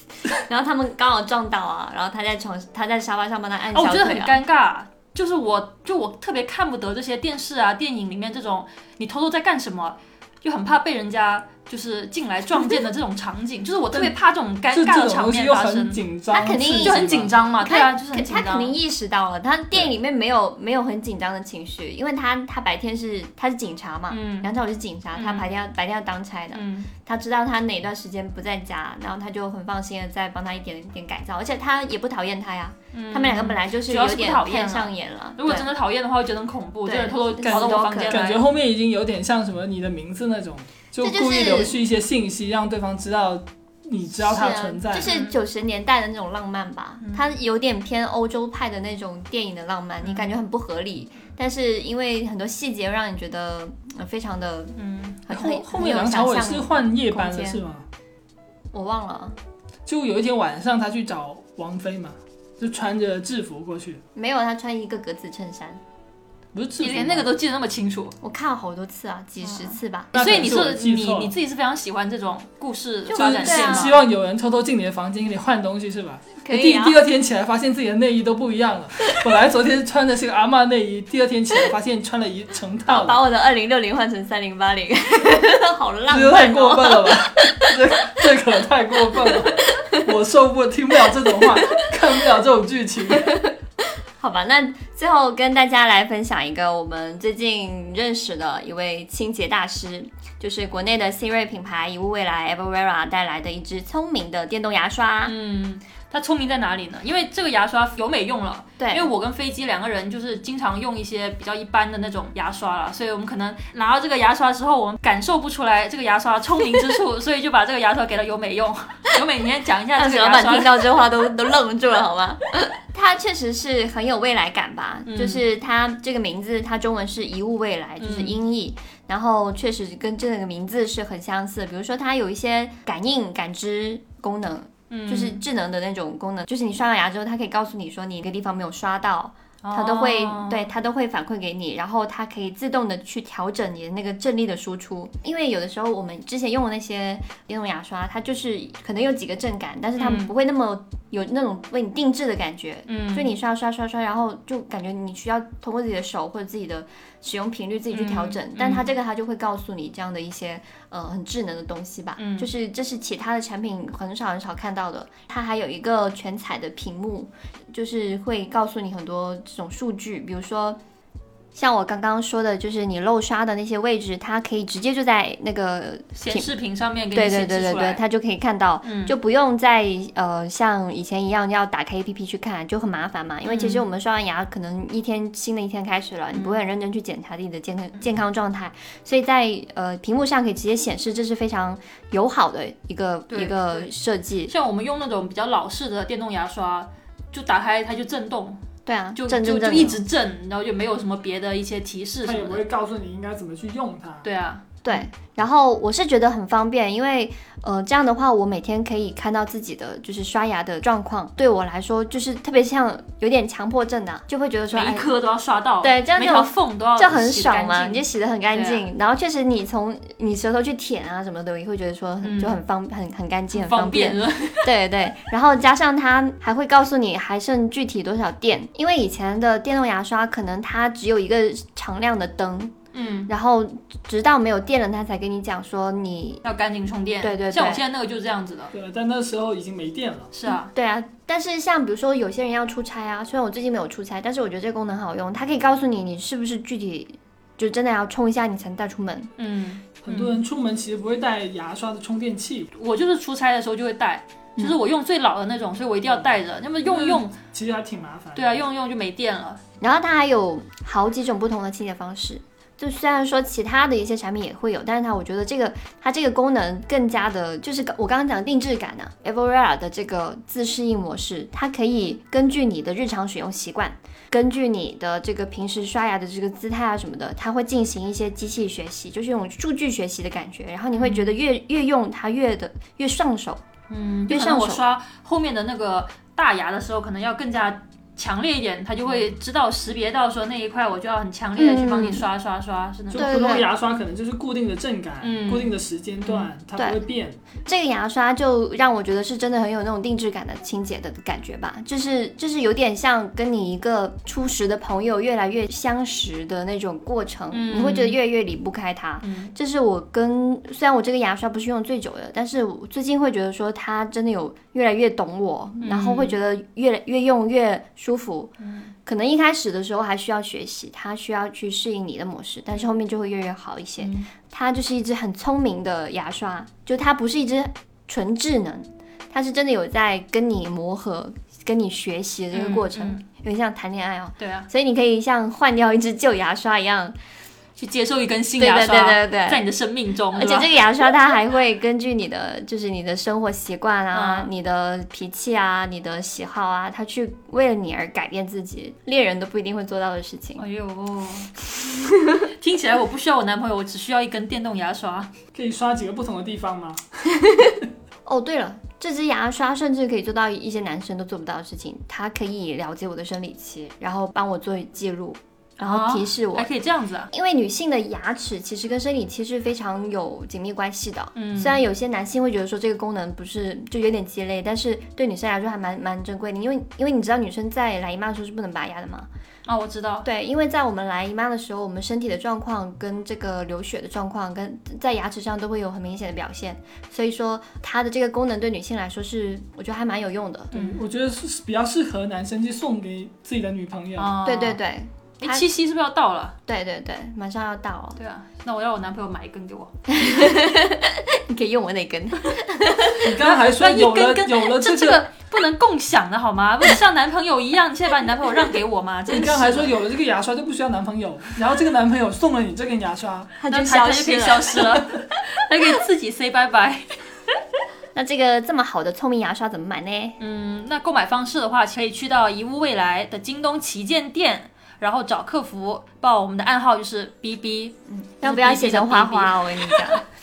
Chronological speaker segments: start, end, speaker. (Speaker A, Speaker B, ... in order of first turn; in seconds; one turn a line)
Speaker A: 0.3-4.4
Speaker B: 3.7-16.0
Speaker C: 14.7-17.3
Speaker A: 16.3-35.7
Speaker B: 16.8-18.8
Speaker B: 24.1-24.5
Speaker B: 25.1-25.5
Speaker B: 26.5-26.9
Speaker B: 32.9-38.4
Speaker A: 36.9-38.2
Speaker C: 37.5-45.1
Speaker A: 41.0-41.8
Speaker A: 44.1-57.6
Speaker B: 45.0-45.4
Speaker B: 50.0-50.3
Speaker B: 54.8-55.2
Speaker C: 55.3-57.9
Speaker A: 58.7-59.4
Speaker C: 59.9-64.0
Speaker A: 64.1-65.8
Speaker C: 66.5-67.3
Speaker B: 66.8-68.2
Speaker A: 68.2-70.1
Speaker B: 69.4-74.0
Speaker C: 70.1-71.3
Speaker A: 73.0-74.0
Speaker C: 73.1-83.2
Speaker A: 76.4-77.0
Speaker A: 82.9-88.3
Speaker C: 86.1-93.4
Speaker A: 89.2-90.1
Speaker A: 91.0-91.9
Speaker A: 93.2-105.3
Speaker B: 105.2-121.0
Speaker A: 108.8-109.1
Speaker A: 119.9-170.8
Speaker B: 125.0-125.4
Speaker B: 128.0-128.4
Speaker B: 134.9-135.4
Speaker B: 139.6-140.7
Speaker B: 150.0-150.3
Speaker B: 152.9-153.3
Speaker B: 157.9-158.9
Speaker B: 162.2-162.5
Speaker A: 171.5-176.5
Speaker B: 176.1-178.0
Speaker A: 177.1-194.5
Speaker B: 178.8-179.1
Speaker B: 183.4-183.8
Speaker B: 186.3-186.6
Speaker B: 193.3-193.9
Speaker B: 194.5-198.6
Speaker A: 198.8-200.0
Speaker B: 199.1-202.6
Speaker C: 202.2-204.2
Speaker B: 204.2-205.0
Speaker A: 204.8-215.1
Speaker B: 214.7-218.9
Speaker A: 215.8-232.7
Speaker B: 222.2-222.6
Speaker B: 223.5-224.7
Speaker B: 232.9-233.3
Speaker A: 233.3-236.4
Speaker B: 236.4-238.7
Speaker A: 237.2-237.8
Speaker C: 238.7-240.3
Speaker B: 240.3-240.7
Speaker A: 240.5-249.3
Speaker B: 249.4-250.4
Speaker C: 250.0-252.7
Speaker B: 252.7-257.3
Speaker C: 256.8-258.6
Speaker B: 258.3-259.6
Speaker A: 259.8-283.6
Speaker B: 280.9-281.4
Speaker B: 283.9-293.3
Speaker A: 284.3-284.8
Speaker A: 291.6-292.2
Speaker C: 293.1-297.4
Speaker A: 293.1-293.7
Speaker B: 295.2-296.5
Speaker A: 296.8-297.0
Speaker A: 297.6-318.5
Speaker B: 307.5-308.2
Speaker B: 309.2-309.5
Speaker B: 315.8-316.4
Speaker B: 318.6-318.9
Speaker A: 319.1-337.2
Speaker B: 324.0-324.3
Speaker B: 332.5-333.2
Speaker B: 334.4-334.7
Speaker B: 337.8-340.8
Speaker A: 338.6-339.6
Speaker A: 340.3-350.6
Speaker B: 344.1-344.5
Speaker B: 350.6-351.6
Speaker B: 352.4-355.3
Speaker C: 355.5-357.7
Speaker A: 358.2-366.7
Speaker B: 365.8-367.3
Speaker A: 367.3-379.3
Speaker B: 371.3-371.8
Speaker B: 379.7-380.3
Speaker A: 380.2-390.7
Speaker B: 390.7-391.0
Speaker C: 390.8-394.3
Speaker B: 394.1-394.8
Speaker A: 394.4-395.6
Speaker B: 395.4-396.6
Speaker A: 396.6-398.2
Speaker B: 398.2-399.9
Speaker A: 400.1-403.6
Speaker C: 403.2-405.2
Speaker B: 403.4-409.9
Speaker C: 409.3-413.6
Speaker A: 413.6-415.1
Speaker B: 413.7-417.1
Speaker A: 418.1-420.4
Speaker B: 420.4-430.2
Speaker A: 428.1-430.2